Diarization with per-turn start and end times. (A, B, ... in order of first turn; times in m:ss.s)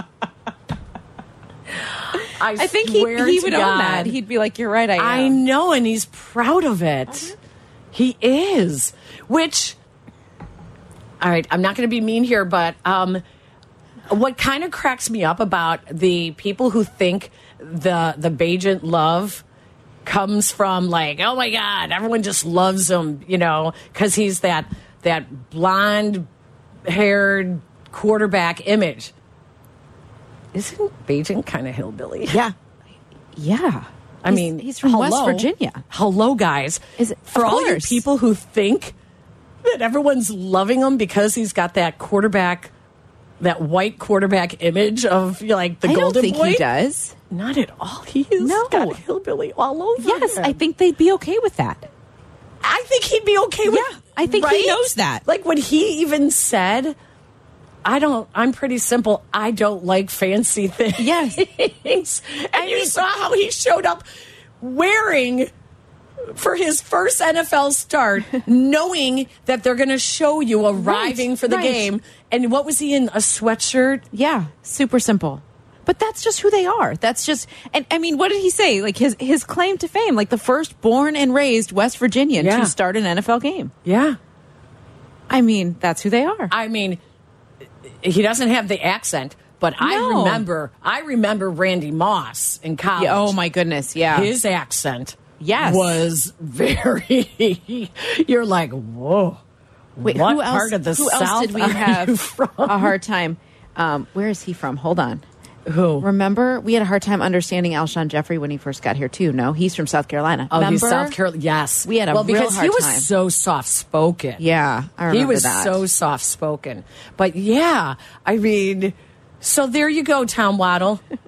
0:02.2-0:04.2 A
0:02.6-0:05.4 B
0:05.0-0:07.3 A
0:07.9-0:09.8 A
0:11.2-0:13.2 A
0:14.1-0:19.4 A
0:20.0-0:26.3 A
0:26.9-0:29.1 A
0:30.5-0:32.4 A
0:32.3-0:32.6 B
0:33.4-0:35.8 B
0:34.2-0:39.0 A
0:37.0-0:38.0 B
0:39.6-0:42.7 A
0:43.4-0:46.6 A
0:45.8-0:47.2 B
0:47.3-0:50.6 A
0:48.4-0:49.0 B
0:50.0-0:51.9 B
0:52.6-0:57.0 A
0:53.7-0:55.2 B
0:57.8-1:04.0 A
1:01.0-1:01.4 B
1:02.5-1:03.0 B
1:04.6-1:05.5 A
1:06.3-1:14.1 A
1:10.8-1:11.9 B
1:14.1-1:23.7 B
1:22.4-1:22.7 A
1:23.8-1:24.2 A
1:25.3-1:26.5 B
1:26.5-1:27.0 A
1:28.0-1:33.4 A
1:29.8-1:30.4 B
1:33.0-1:34.3 B
1:34.1-1:39.4 A
1:35.4-1:36.0 B
1:40.0-1:42.9 A
1:40.0-1:45.2 B
1:45.7-1:46.1 A
1:46.0-1:51.2 B
1:50.5-1:54.4 A
1:51.8-1:53.1 B
1:54.4-1:55.8 B
1:55.1-2:01.0 A